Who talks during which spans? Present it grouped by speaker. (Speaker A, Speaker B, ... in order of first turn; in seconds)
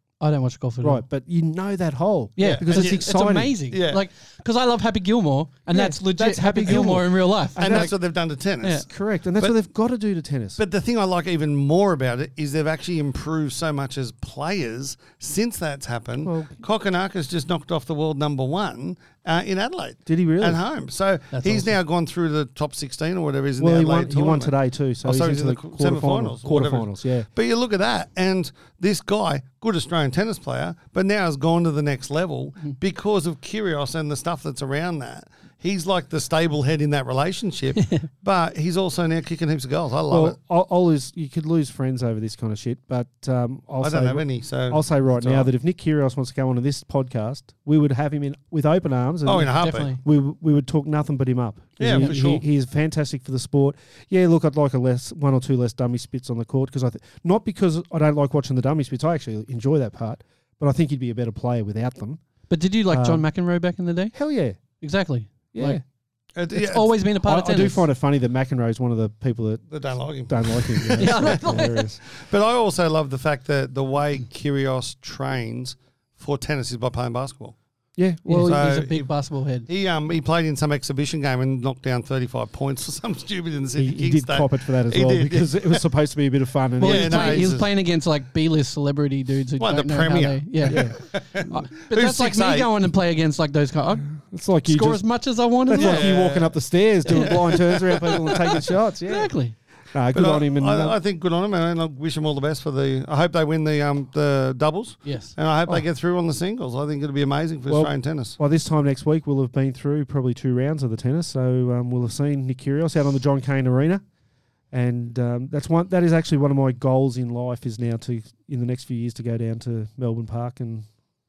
Speaker A: 0.2-1.0, 2.4-8.0, 8.6-8.9, 21.3-21.7, 49.6-50.0, 62.5-64.1, 64.8-65.8, 66.5-67.9, 71.0-71.9, 78.3-79.7, 86.8-96.2, 97.0-97.6, 99.0-99.5, 105.0-105.3
Speaker B: 0.8-3.5, 5.7-7.9, 8.9-10.6, 16.2-16.6, 20.1-20.6, 23.6-27.3, 40.1-62.2, 62.9-63.2, 64.1-64.6, 65.5-65.8, 67.2-72.0, 78.0-78.6, 83.8-87.6, 90.7-91.0, 94.1-95.0, 95.7-99.3, 99.9-101.0, 107.7-114.0, 114.7-120.9
Speaker C: 2.4-3.1, 3.7-4.0, 7.6-8.9, 10.6-24.5, 25.0-40.4, 43.8-45.5, 49.2-50.0, 51.8-52.4, 66.3-66.9, 69.7-77.6, 78.5-79.1, 79.7-85.8, 86.8-87.7, 89.6-92.7, 95.8-96.6, 97.1-98.6, 100.1-108.3